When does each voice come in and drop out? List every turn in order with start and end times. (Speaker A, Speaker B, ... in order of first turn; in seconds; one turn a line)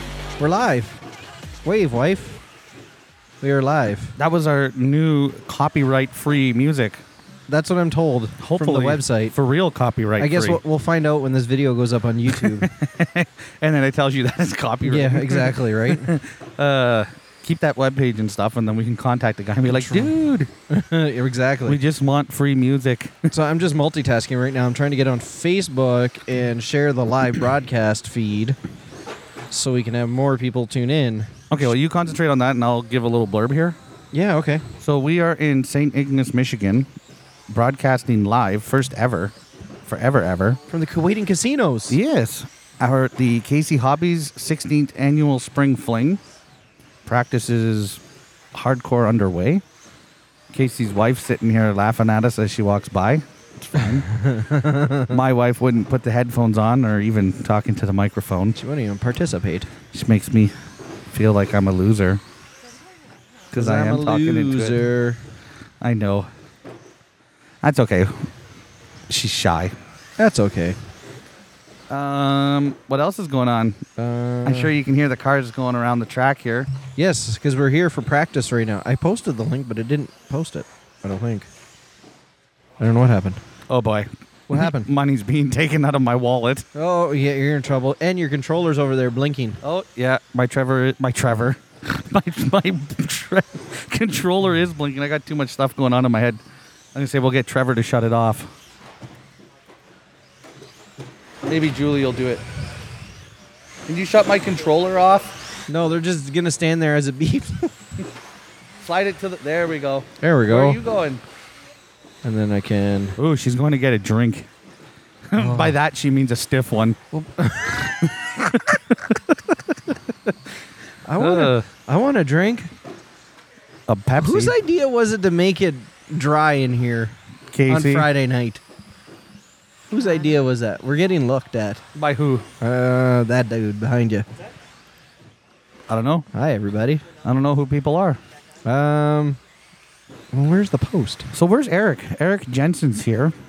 Speaker A: 0.4-1.0
Speaker A: 1.6-2.4
Speaker A: 3.4-4.1
Speaker B: 4.2-7.0
Speaker A: 7.5-9.3
Speaker B: 8.4-10.6
Speaker A: 10.2-12.7
Speaker B: 12.3-20.5
Speaker A: 14.8-16.1
Speaker A: 19.6-20.1
Speaker A: 20.7-21.8
Speaker B: 21.6-23.3
Speaker A: 23.3-28.6
Speaker A: 29.5-31.4
Speaker B: 31.5-33.8
Speaker A: 34.1-34.7
Speaker B: 34.8-36.9
Speaker B: 37.5-39.3
Speaker B: 39.9-40.6
Speaker A: 40.7-42.0
Speaker B: 41.9-46.2
Speaker B: 47.0-48.0
Speaker B: 48.5-49.6
Speaker B: 50.5-54.1
Speaker A: 54.1-55.2
Speaker B: 55.1-58.6
Speaker A: 58.5-59.7
Speaker B: 59.9-60.5
Speaker B: 61.1-62.2
Speaker B: 63.5-64.8
Speaker A: 63.5-65.2
Speaker B: 65.8-66.3
Speaker B: 67.6-68.3
Speaker B: 69.1-69.7
Speaker A: 70.2-70.8
Speaker B: 71.9-73.8
Speaker A: 74.0-74.8
Speaker B: 74.4-76.7
Speaker A: 77.0-81.5
Speaker A: 82.8-83.4
Speaker B: 83.7-86.6
Speaker A: 84.5-84.9
Speaker A: 86.7-89.6
Speaker B: 89.6-96.4
Speaker B: 96.9-98.5
Speaker B: 101.5-102.4
Speaker B: 103.9-105.3
Speaker A: 105.7-107.8
Speaker B: 108.8-111.2
Speaker A: 110.2-110.8
Speaker A: 112.2-113.2
Speaker B: 113.2-114.5
Speaker B: 115.3-117.0
Speaker A: 115.3-115.8
Speaker A: 117.1-118.0
Speaker B: 118.0-119.3
Speaker A: 121.0-122.7
Speaker B: 121.2-121.7
Speaker B: 123.9-124.5
Speaker A: 124.2-127.2
Speaker B: 127.5-128.1
Speaker A: 127.7-128.6
Speaker A: 129.9-131.8
Speaker B: 131.9-132.5
Speaker A: 132.6-134.2
Speaker B: 135.9-136.2
Speaker A: 136.3-137.1
Speaker B: 137.2-138.2
Speaker A: 138.6-139.4
Speaker A: 140.3-141.3
Speaker B: 141.3-143.3